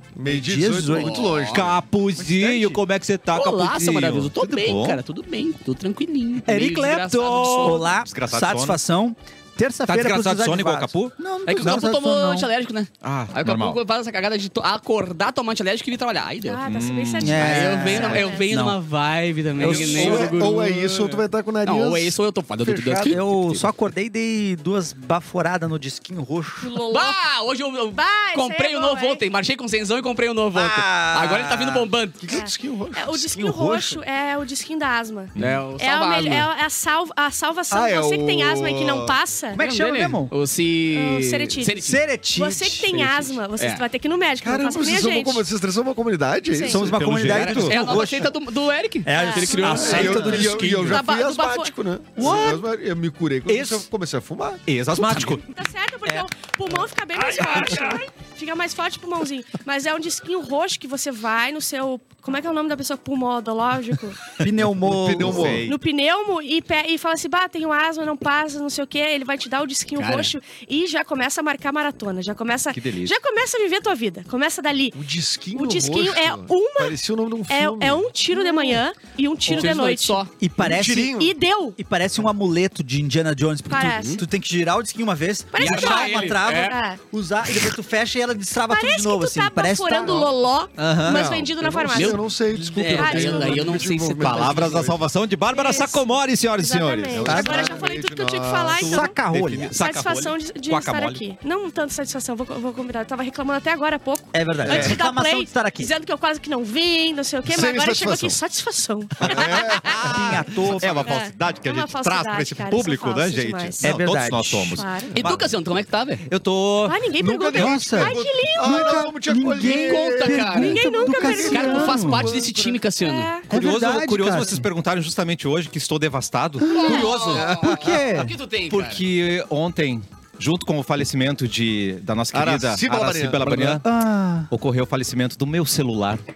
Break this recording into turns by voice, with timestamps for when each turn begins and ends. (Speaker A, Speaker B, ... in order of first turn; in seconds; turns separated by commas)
Speaker A: 0.1-1.8, Speaker B: 0.3-1.3, Speaker C: 0.9-1.7, Speaker D: 1.5-5.0, Speaker A: 2.5-2.8, Speaker C: 3.3-8.0, Speaker B: 6.5-12.5, Speaker D: 7.4-8.8, Speaker D: 9.9-11.8, Speaker C: 11.5-16.6, Speaker D: 13.0-13.8, Speaker E: 16.4-18.4, Speaker D: 16.7-17.4, Speaker B: 17.2-18.8, Speaker C: 17.4-23.6, Speaker B: 19.6-20.4, Speaker A: 19.6-23.2, Speaker B: 23.0-26.8, Speaker E: 26.6-27.2, Speaker C: 26.9-32.2, Speaker E: 28.0-29.2, Speaker B: 30.5-31.9, Speaker A: 32.2-33.5, Speaker E: 32.3-39.6, Speaker B: 33.4-34.0, Speaker D: 35.4-35.6, Speaker C: 35.4-36.5, Speaker A: 37.7-39.2, Speaker B: 39.5-40.3, Speaker C: 39.6-42.0, Speaker E: 40.9-41.8, Speaker B: 41.8-42.9, Speaker E: 42.3-45.5, Speaker C: 42.9-43.9, Speaker A: 44.4-46.9, Speaker E: 46.5-46.8, Speaker B: 46.6-48.3, Speaker D: 46.7-47.8, Speaker C: 47.3-50.7, Speaker B: 49.0-51.0, Speaker E: 49.1-49.8, Speaker A: 49.7-54.6, Speaker E: 50.9-51.7, Speaker B: 52.2-52.6, Speaker D: 52.2-52.6, Speaker D: 53.5-53.9, Speaker D: 54.7-55.4, Speaker E: 55.5-64.2, Speaker B: 57.1-58.0, Speaker B: 64.4-65.6, Speaker A: 64.9-65.7, Speaker D: 65.2-65.8, Speaker E: 65.7-75.0, Speaker C: 70.0-70.3, Speaker D: 72.7-73.1, Speaker A: 74.9-78.1, Speaker E: 75.5-80.3, Speaker C: 79.5-80.3, Speaker B: 80.3-81.2, Speaker A: 80.6-81.3, Speaker E: 81.2-81.8, Speaker B: 81.8-90.2, Speaker E: 83.7-84.2, Speaker E: 85.5-87.0, Speaker C: 85.6-86.8, Speaker E: 88.7-92.2, Speaker A: 90.0-90.3, Speaker D: 90.8-91.2, Speaker A: 91.0-95.0, Speaker C: 91.9-94.8, Speaker B: 92.7-93.3, Speaker E: 93.0-93.6, Speaker D: 94.2-97.5, Speaker E: 95.5-96.0, Speaker E: 96.6-99.2, Speaker A: 97.1-98.9, Speaker B: 97.3-97.7, Speaker D: 98.8-101.2, Speaker B: 98.8-99.8, Speaker E: 99.7-109.9, Speaker B: 104.3-105.9, Speaker A: 104.7-105.0, Speaker A: 107.5-108.4, Speaker D: 109.2-115.5, Speaker A: 109.2-110.0, Speaker B: 110.0-111.2, Speaker E: 111.0-113.9, Speaker B: 113.8-114.8, Speaker E: 114.7-115.1, Speaker C: 115.1-116.2, Speaker D: 116.3-117.0, Speaker E: 116.8-119.0, Speaker A: 117.2-122.8, Speaker B: 117.5-122.3, Speaker C: 119.6-120.9, Speaker E: 120.7-122.1, Speaker C: 121.5-123.3, Speaker E: 123.0-123.5, Speaker B: 123.5-124.7, Speaker D: 123.5-127.5, Speaker B: 126.6-128.3, Speaker C: 126.7-129.0, Speaker A: 126.9-128.0, Speaker D: 128.7-133.9, Speaker A: 132.3-133.8, Speaker B: 133.8-134.5, Speaker D: 134.5-136.2